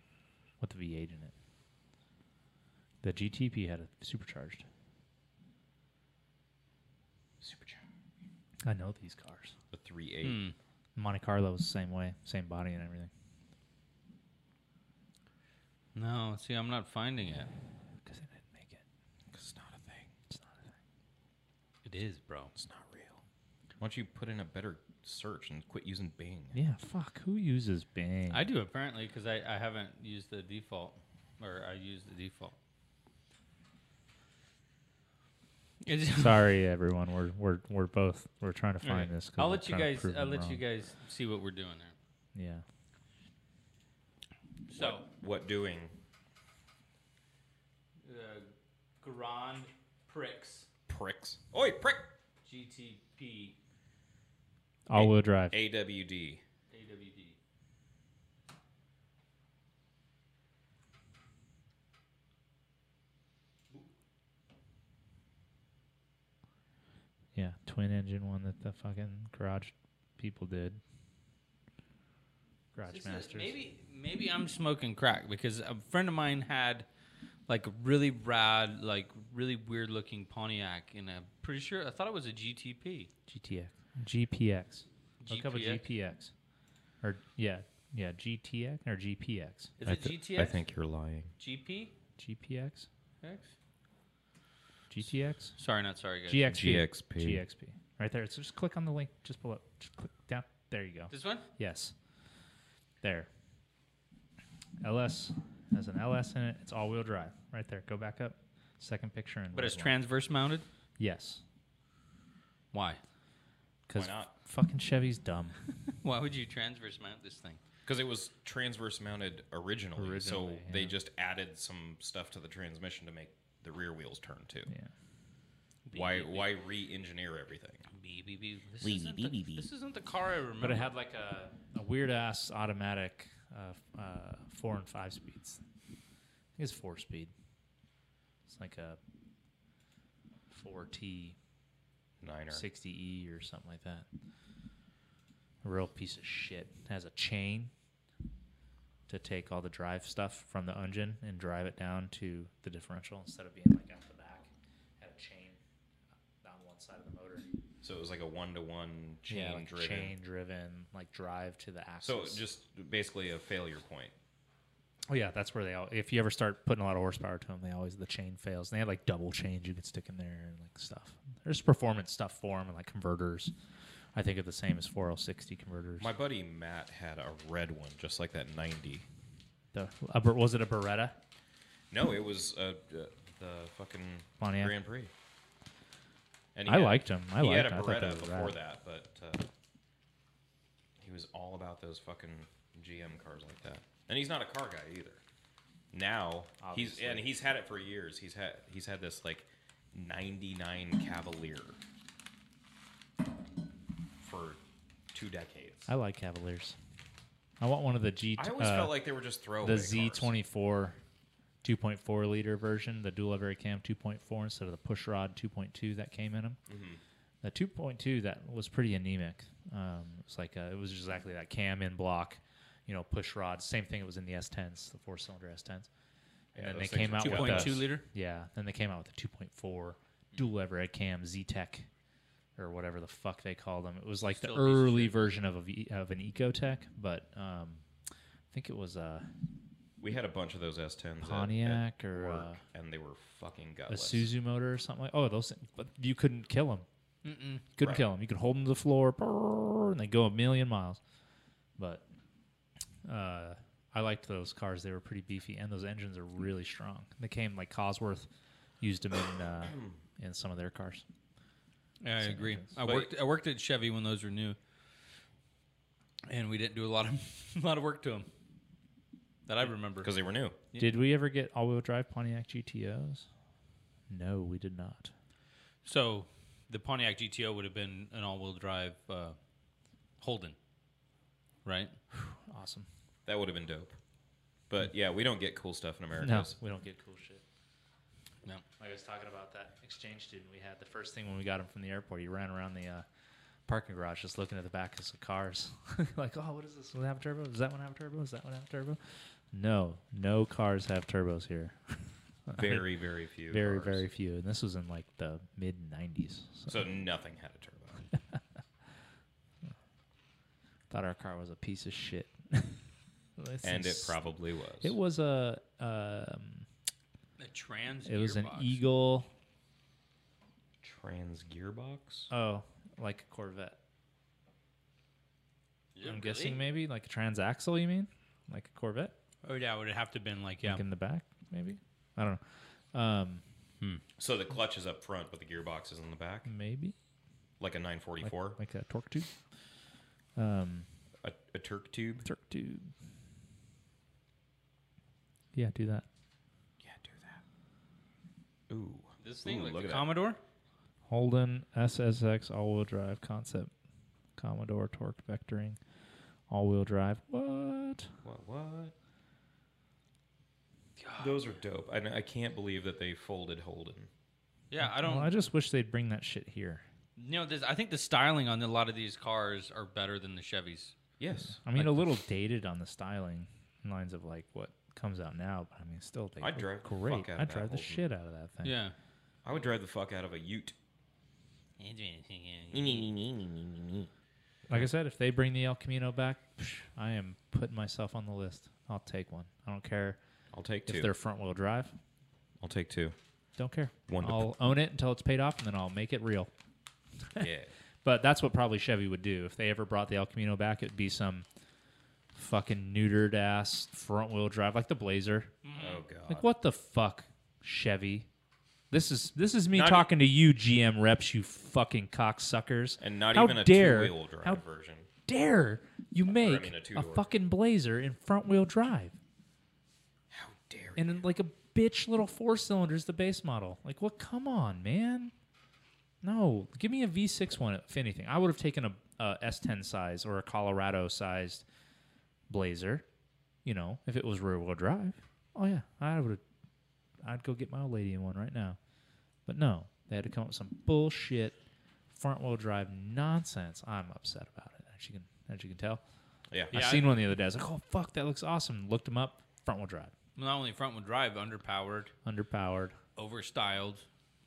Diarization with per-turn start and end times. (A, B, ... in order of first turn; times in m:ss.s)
0:00.6-0:01.3 A
0:03.0-0:04.6 A
0:07.4-0:07.8 B
0:08.6-0:09.5 A
0:09.7-0:10.4 B
0:10.2-0:10.5 C
0:10.9-0:13.1 A
0:15.9-0:17.5 C
0:18.0-0:18.8 A
0:19.3-0:20.1 B
0:20.3-0:20.7 A
0:21.8-0:22.5 C
0:22.6-0:23.2 B
0:23.8-0:26.6 B
0:26.5-0:28.5 A
0:28.3-0:32.5 C
0:35.8-0:36.4 C
0:36.1-0:40.6 A
0:38.8-0:41.9 C
0:42.3-0:42.6 A
0:44.7-0:45.0 C
0:44.8-0:45.9 B
0:48.0-0:48.5 C
0:49.0-0:50.7 C
0:50.9-0:52.1 B
0:52.4-0:53.5 C
0:54.9-0:55.6 A
0:54.9-0:56.4 B
0:56.7-0:57.4 C
1:07.3-1:10.8 A
1:12.7-1:13.5 A
1:12.9-1:16.9 C
1:17.5-1:23.1 C
1:23.3-1:26.3 A
1:25.2-1:25.8 C
1:27.0-1:29.7 A
1:29.8-1:30.6 C
1:29.8-1:31.3 B
1:31.4-1:31.9 C
1:32.2-1:32.9 A
1:33.2-1:33.5 C
1:34.9-1:35.6 A
1:35.6-1:36.5 C
1:36.3-1:41.9 A
1:36.5-1:37.4 B
1:41.1-1:41.4 C
1:43.0-1:43.3 A
1:44.8-1:49.9 A
1:49.5-1:50.6 C
1:51.0-1:51.4 A
1:52.7-1:53.0 C
1:53.9-1:55.6 A
1:53.9-1:54.3 B
1:55.9-1:57.6 C
1:57.8-2:04.7 B
2:00.0-2:00.9 A
2:05.9-2:06.5 C
2:05.9-2:07.8 B
2:07.9-2:10.9 C
2:08.8-2:09.6 B
2:10.6-2:15.6 A
2:16.6-2:17.3 A
2:18.5-2:19.0 A
2:20.5-2:21.4 A
2:22.2-2:22.6 B
2:22.5-2:24.1 A
2:25.6-2:27.7 A
2:29.1-2:35.6 A
2:36.4-2:37.5 A
2:37.8-2:40.1 B
2:39.3-2:42.4 A
2:42.0-2:44.1 B
2:45.1-2:53.5 A
2:54.1-2:56.1 A
2:56.0-2:59.1 B
2:59.7-3:01.2 A
3:01.9-3:05.1 B
3:04.4-3:04.7 A
3:06.5-3:09.5 B
3:06.7-3:08.6 A
3:11.0-3:15.2 B
3:15.9-3:21.8 B
3:16.6-3:17.3 A
3:24.2-3:24.6 B
3:25.1-3:25.9 B
3:25.9-3:26.8 A
3:27.6-3:28.9 A
3:28.4-3:30.3 B
3:29.6-3:31.0 A
3:31.6-3:36.6 A
3:36.7-3:37.0 B
3:37.4-3:45.9 A
3:46.5-3:47.9 B
3:46.5-3:51.9 A
3:47.2-3:48.0 C
3:52.6-3:57.8 A
3:54.4-3:55.2 C
3:58.5-3:59.3 A
4:00.0-4:04.3 B
4:01.2-4:02.6 A
4:03.9-4:06.8 A
4:07.2-4:07.6 C
4:07.8-4:11.0 A
4:11.8-4:12.0 A
4:13.0-4:18.3 A
4:18.8-4:21.0 A
4:22.0-4:24.6 C
4:22.2-4:22.7 A
4:22.8-4:23.1 B
4:26.2-4:28.3 C
4:29.5-4:30.1 C
4:30.0-4:30.6 B
4:30.8-4:33.3 A
4:34.1-4:35.1 A
4:35.8-4:39.4 C
4:40.2-4:40.6 C
4:41.6-4:42.0 C
4:42.1-4:42.9 A
4:43.2-4:44.0 B
4:44.7-4:46.5 B
4:46.2-4:47.4 A
4:48.8-4:53.0 A
4:53.7-4:59.0 A
4:59.5-5:02.9 A
5:02.5-5:04.0 B
5:03.5-5:06.8 A
5:06.7-5:08.1 B
5:10.9-5:12.8 A
5:13.4-5:14.2 A
5:13.6-5:14.9 B
5:14.8-5:16.7 A
5:17.4-5:18.8 C
5:18.0-5:19.3 A
5:20.8-5:22.3 B
5:22.3-5:23.8 A
5:26.0-5:26.6 C
5:26.0-5:29.1 A
5:29.4-5:30.8 C
5:30.6-5:33.4 A
5:34.2-5:36.5 B
5:36.5-5:37.0 A
5:37.6-5:38.6 B
5:38.2-5:39.3 A
5:40.4-5:40.9 A
5:41.2-5:42.3 B
5:42.2-5:42.9 A
5:45.5-5:46.1 A
5:46.8-5:47.4 B
5:48.7-5:50.1 B
5:49.2-5:50.4 C
5:51.1-5:53.7 A
5:54.4-5:55.8 A
5:56.5-5:58.1 A
5:58.2-5:58.9 B
6:01.0-6:01.4 C
6:01.2-6:04.1 B
6:04.7-6:05.3 C
6:04.8-6:06.8 A
6:07.2-6:10.9 C
6:11.2-6:11.6 B
6:11.5-6:18.8 A
6:11.7-6:12.1 C
6:16.4-6:18.0 B
6:18.6-6:18.9 C
6:19.4-6:20.7 B
6:21.8-6:23.1 C
6:22.7-6:24.1 B
6:24.7-6:30.2 A
6:30.5-6:31.1 B
6:30.8-6:31.9 A
6:32.6-6:33.2 B
6:33.6-6:36.5 A
6:34.1-6:34.5 B
6:37.4-6:37.7 B
6:38.0-6:41.4 A
6:42.3-6:45.6 A
6:45.6-6:46.0 C
6:45.8-6:46.5 B
6:46.3-6:48.3 A
6:48.9-6:54.6 A
6:49.7-6:50.1 B
6:53.0-6:55.1 B
6:55.2-6:59.2 A
6:56.3-6:57.2 B
7:00.3-7:01.1 B
7:01.0-7:05.3 A
7:06.2-7:11.6 A
7:12.5-7:13.0 A
7:13.6-7:16.4 A
7:17.2-7:18.8 A
7:19.4-7:21.6 A
7:22.1-7:26.0 A
7:26.7-7:27.2 C
7:26.7-7:30.1 A
7:30.4-7:32.1 C
7:32.2-7:33.0 A
7:33.2-7:34.0 C